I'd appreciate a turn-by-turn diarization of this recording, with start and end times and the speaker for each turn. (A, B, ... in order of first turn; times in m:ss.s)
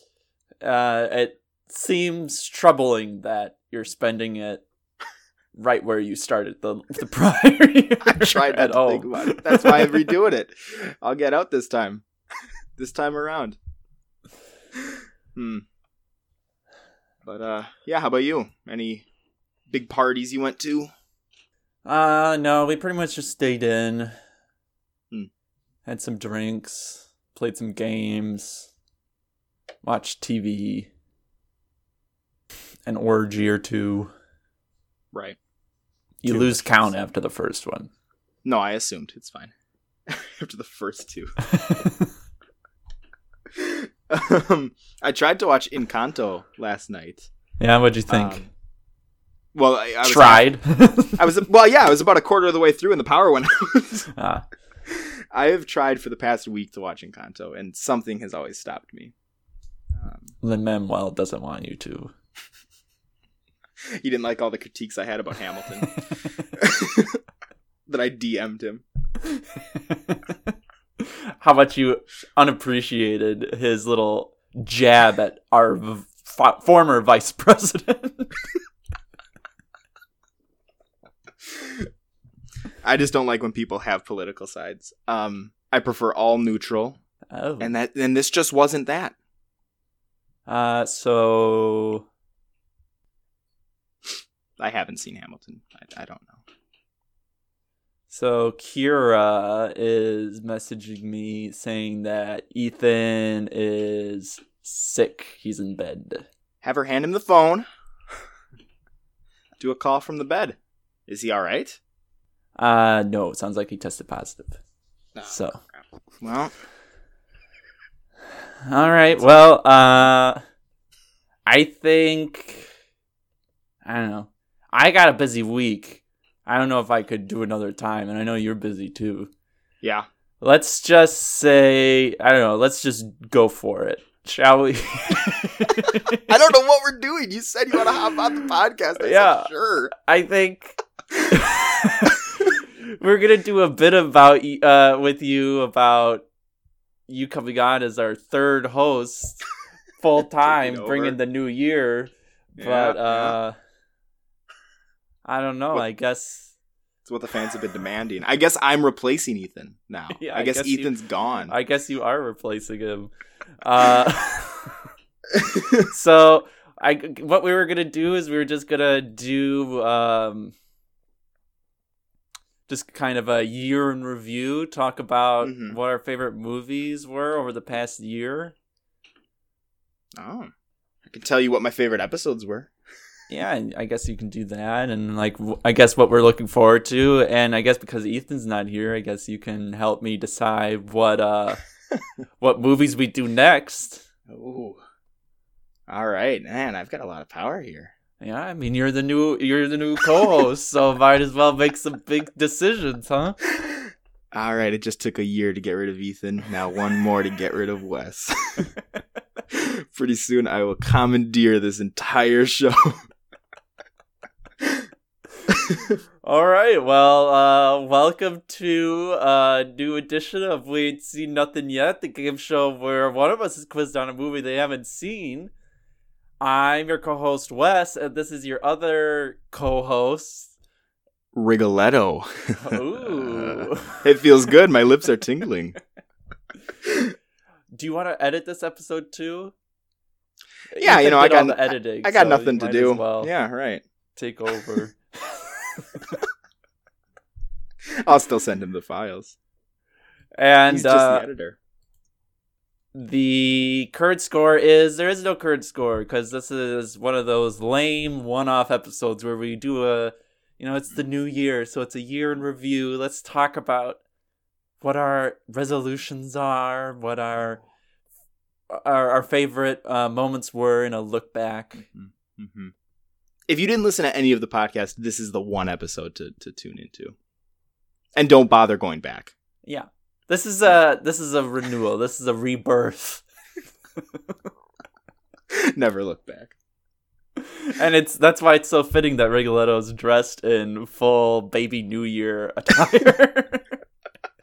0:00.6-0:04.6 A
0:05.6-0:10.1 A
0:08.0-0:12.0 B
0:12.8-0:13.6 B
0:15.4-0:15.6 B
0:17.2-0:19.0 B
0:19.7-0:20.9 B
0:21.8-0:24.1 A
0:25.9-0:28.7 A
0:29.8-0:30.9 A
0:32.9-0:34.1 A
0:36.2-0:37.9 A
0:38.4-0:39.5 B
0:40.1-0:41.4 B
0:41.5-0:42.1 A
0:43.6-0:47.3 B
0:47.6-0:48.4 A
0:48.1-0:48.5 B
0:49.5-0:50.4 B
0:50.0-0:51.2 A
0:51.2-0:54.1 B
0:54.1-0:54.4 A
0:54.9-0:59.1 B
1:00.0-1:00.2 B
1:00.4-1:02.1 A
1:03.9-1:06.0 B
1:06.6-1:07.2 B
1:07.9-1:08.8 B
1:09.3-1:10.4 A
1:11.0-1:18.4 A
1:22.8-1:27.0 B
1:27.3-1:27.8 A
1:27.6-1:29.1 B
1:30.5-1:32.0 A
1:34.6-1:36.4 B
1:38.1-1:46.2 A
1:46.6-1:47.7 B
1:49.6-1:50.6 B
1:51.1-1:51.8 B
1:52.6-1:54.6 A
1:55.2-1:55.6 A
1:56.2-1:56.5 B
1:58.7-2:00.4 A
2:01.4-2:02.7 A
2:03.8-2:09.3 A
2:10.4-2:16.3 A
2:16.3-2:19.9 B
2:19.0-2:20.8 A
2:21.3-2:26.2 A
2:27.1-2:29.4 A
2:30.0-2:33.6 A
2:30.4-2:31.2 B
2:32.6-2:33.4 B
2:35.2-2:36.5 A
2:37.1-2:41.6 B
2:40.2-2:40.9 A
2:41.5-2:44.7 A
2:45.8-2:50.5 A
2:52.7-2:58.6 A
2:55.4-2:55.8 B
3:00.2-3:00.5 B
3:01.1-3:02.7 B
3:03.3-3:11.6 A
3:12.4-3:14.0 A
3:14.3-3:14.8 B
3:15.9-3:17.9 B
3:18.2-3:23.4 A
3:23.6-3:28.7 B
3:29.5-3:33.0 B
3:36.2-3:45.5 A
3:46.4-3:50.5 A
3:51.4-3:55.8 B
3:52.6-3:54.0 A
3:56.9-3:57.1 B
3:57.7-3:59.5 A
4:00.7-4:03.3 A
4:00.8-4:03.8 B
4:04.2-4:06.2 A
4:07.9-4:09.4 B
4:10.4-4:11.2 A
4:10.7-4:11.6 B
4:12.9-4:24.0 A
4:24.8-4:27.6 A
4:28.7-4:31.8 A
4:31.9-4:32.7 B
4:33.5-4:37.1 B
4:38.2-4:39.3 B
4:39.7-4:43.2 A
4:45.5-4:46.5 B
4:47.5-4:53.7 A